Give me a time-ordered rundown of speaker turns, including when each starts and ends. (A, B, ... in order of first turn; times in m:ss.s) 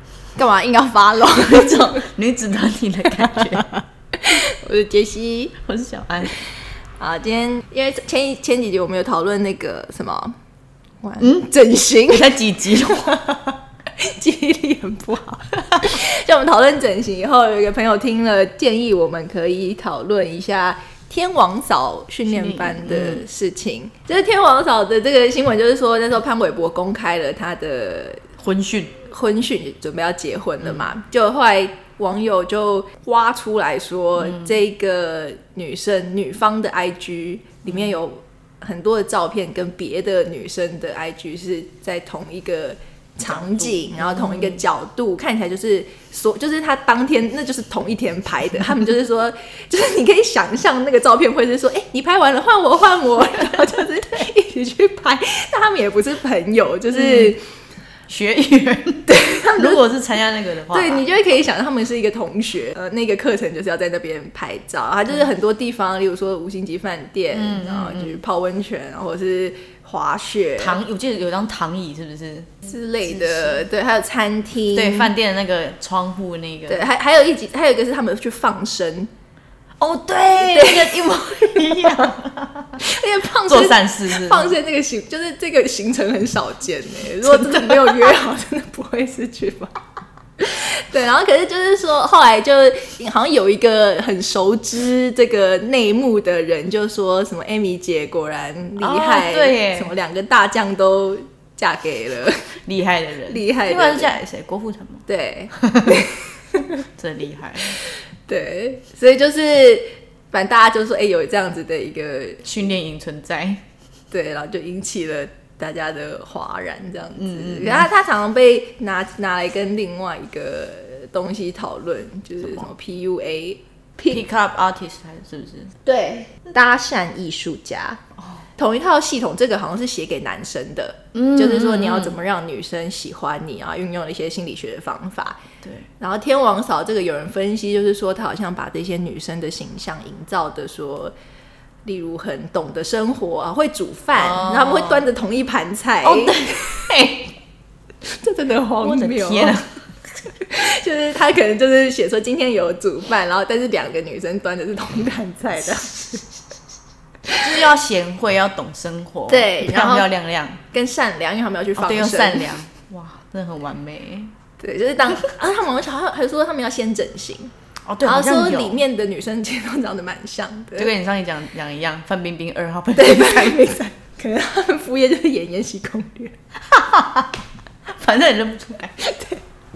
0:00.4-0:02.1 A
0:01.5-0:03.8 B
0:04.2-0:05.6 A
0:05.6-0:06.4 B
0:07.0-0:10.4 A
0:11.0-0:28.3 A
0:11.2-0:13.2 B
0:22.3-0:23.2 B
0:28.4-0:29.0 B
0:29.0-0:57.5 A
0:43.3-0:44.6 B
0:57.0-0:57.3 B
0:58.1-1:01.2 B
0:59.1-0:59.8 A
1:00.7-1:10.8 A
1:07.3-1:08.2 B
1:10.6-1:13.6 B
1:12.6-1:15.1 A
1:14.7-1:16.8 B
1:16.7-1:19.1 A
1:19.8-1:22.9 B
1:20.4-1:22.2 A
1:22.8-1:29.7 A
1:23.4-1:24.5 B
1:27.2-1:28.2 B
1:30.4-1:42.6 A
1:38.8-1:39.9 B
1:42.6-1:46.0 B
1:43.3-1:44.2 A
1:45.1-1:46.8 A
1:46.9-1:47.8 B
1:47.7-1:52.5 A
1:52.4-1:53.6 B
1:54.1-2:04.2 A
1:57.2-1:57.9 B
2:04.1-2:05.8 B
2:05.8-2:08.0 A
2:08.6-2:15.4 A
2:11.2-2:12.2 B
2:15.6-2:15.9 B
2:16.0-2:21.1 A
2:21.8-2:27.0 A
2:24.2-2:25.0 B
2:26.0-2:27.3 B
2:28.0-2:29.6 A
2:28.8-2:29.8 B
2:30.3-2:36.3 A
2:37.4-2:40.6 B
2:39.3-2:40.1 A
2:40.7-2:42.6 A
2:41.8-2:44.3 B
2:44.6-2:47.5 A
2:47.9-2:48.8 B
2:48.0-2:50.9 A
2:50.8-2:53.7 B
2:53.0-2:56.4 A
2:56.7-2:57.4 B
2:57.9-2:59.0 B
2:59.0-2:59.4 A